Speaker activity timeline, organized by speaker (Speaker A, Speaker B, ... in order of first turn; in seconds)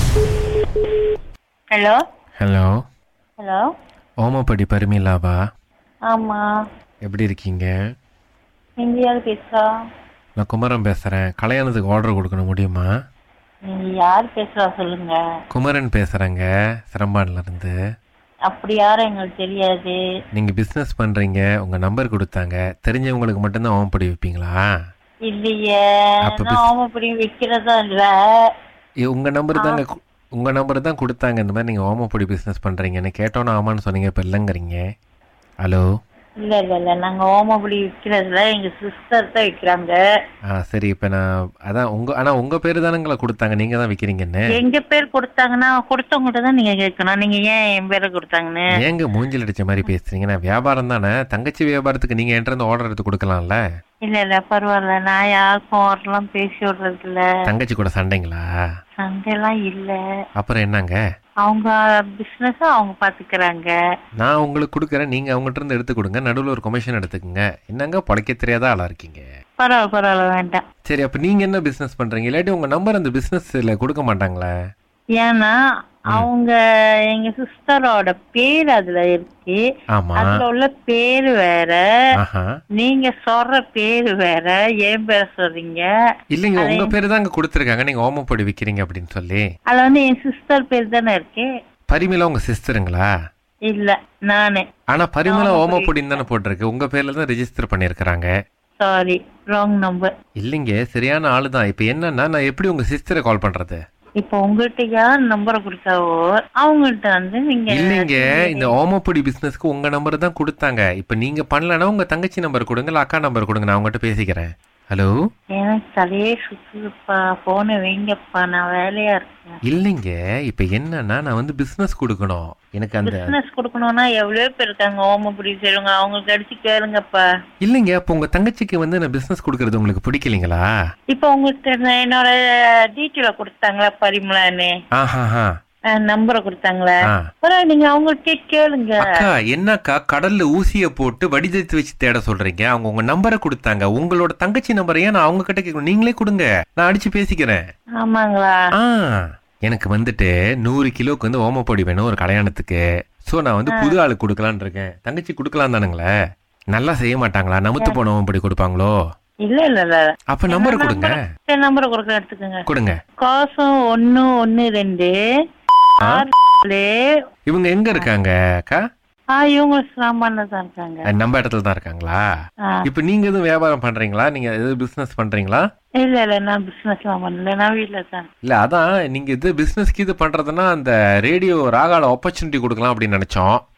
Speaker A: 2.4-2.8, 4.2-5.4, 7.0-7.7, 10.4-12.9, 15.5-17.7, 20.3-24.6, 26.2-26.7, 29.1-34.8, 40.5-44.5, 48.8-53.6, 57.5-58.4, 60.4-61.0, 64.2-69.2, 70.8-74.5, 79.9-80.4, 82.2-82.5, 86.3-89.4, 91.9-93.1, 94.9-98.3, 100.4-103.8, 107.7-115.1, 119.7-123.3, 127.6-130.7, 134.9-135.5, 139.1-147.6, 148.8-156.1, 156.7-158.9, 160.3-161.2, 162.7-162.9, 167.5-168.8, 171.1-172.2, 172.8-175.6, 178.4-183.6
Speaker B: 6.1-6.4, 8.8-9.6, 13.7-15.1, 18.5-19.9, 25.3-25.8, 26.4-28.1, 36.4-40.0, 44.5-48.6, 54.0-57.2, 59.0-60.0, 61.4-63.7, 69.6-70.6, 75.2-75.5, 76.1-76.5, 77.1-79.6, 80.2-81.8, 82.8-85.8, 86.6-86.9, 89.7-91.5, 93.7-94.6, 95.2-96.2, 98.8-100.1, 104.2-108.7, 115.6-119.6, 123.0-127.2, 131.1-132.3, 132.9-134.7, 135.9-139.2, 148.0-148.6, 159.4-162.6, 163.2-165.1, 166.0-166.9, 169.3-171.1, 176.0-178.3